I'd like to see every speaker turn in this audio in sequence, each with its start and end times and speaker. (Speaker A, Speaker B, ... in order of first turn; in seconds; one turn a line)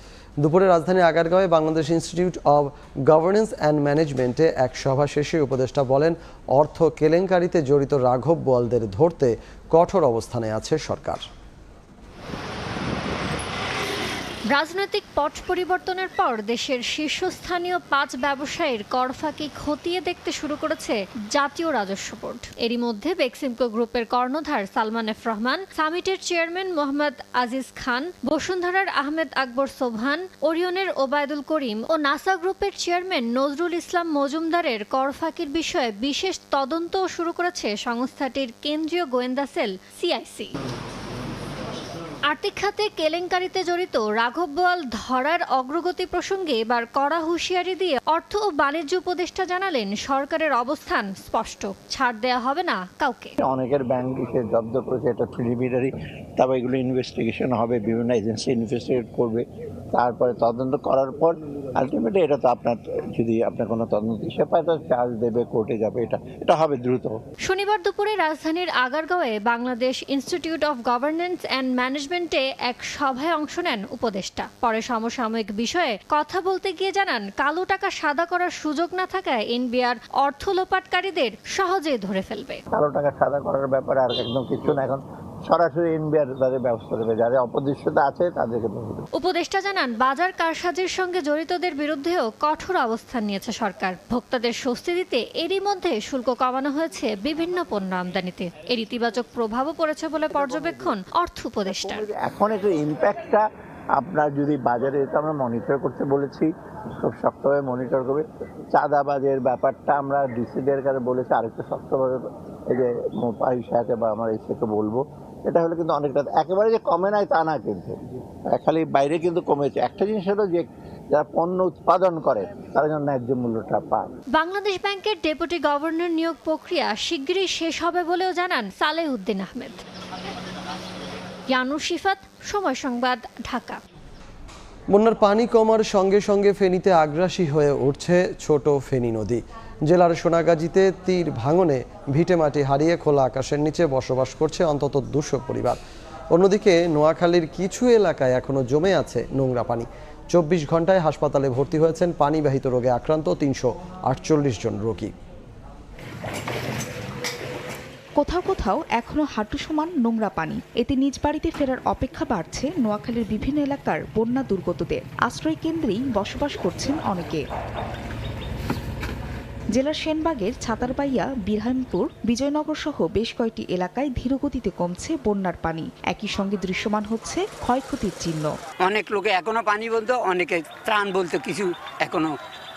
Speaker A: 0.4-11.2
Speaker B: 14.5-40.5
Speaker B: 42.3-53.3
Speaker C: 53.4-59.4
Speaker C: 60.0-67.2
Speaker B: 67.5-82.6
Speaker C: 82.7-89.0
Speaker B: 89.2-102.0
Speaker C: 100.3-101.0
Speaker C: 101.6-103.5
Speaker C: 104.0-118.0
Speaker C: 118.5-124.1
Speaker B: 124.3-129.8
Speaker B: 131.5-133.8
Speaker A: 134.9-145.8
Speaker A: 146.3-155.1
Speaker D: 158.2-167.4
Speaker D: 169.7-178.6
Speaker E: 178.8-182.3